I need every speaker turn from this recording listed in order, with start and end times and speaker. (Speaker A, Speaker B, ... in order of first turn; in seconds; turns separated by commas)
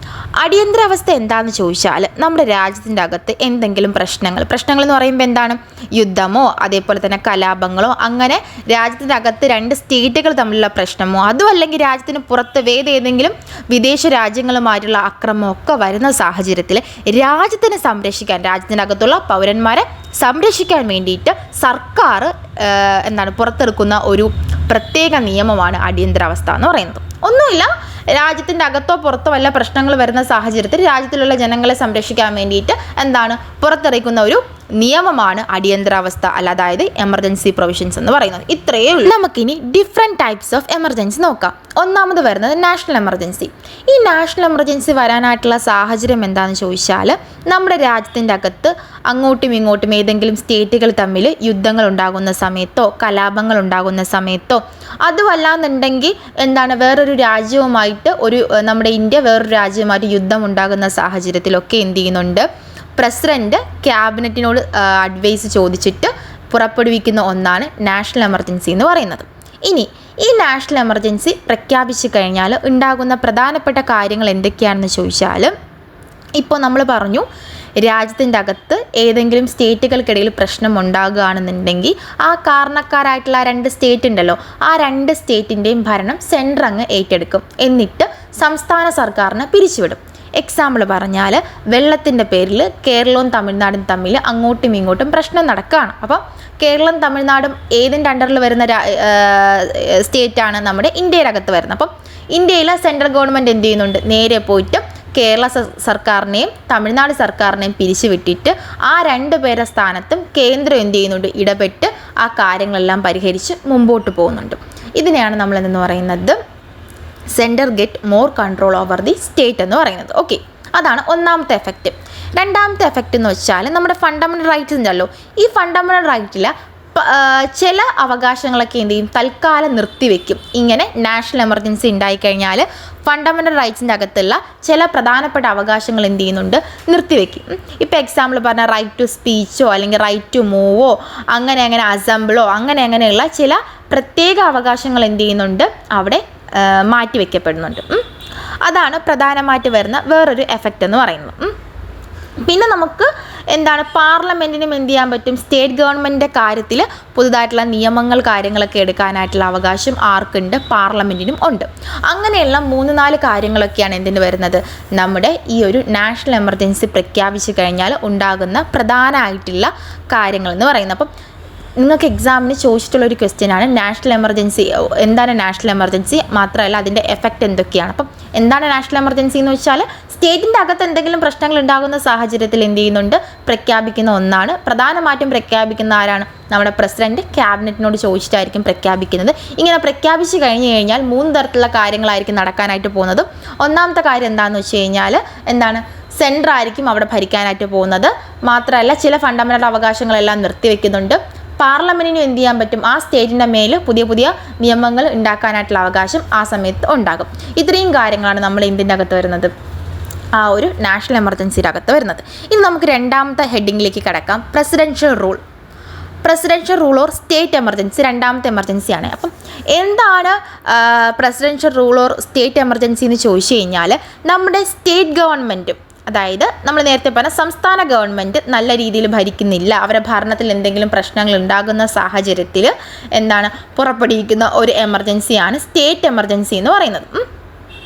Speaker A: 0.4-75.5, Speaker A: 76.4-77.3, Speaker A: 77.8-116.4, Speaker A: 117.3-148.1, Speaker A: 148.6-151.6, Speaker A: 152.4-171.1, Speaker A: 171.8-209.5, Speaker A: 210.4-215.4, Speaker A: 216.2-237.3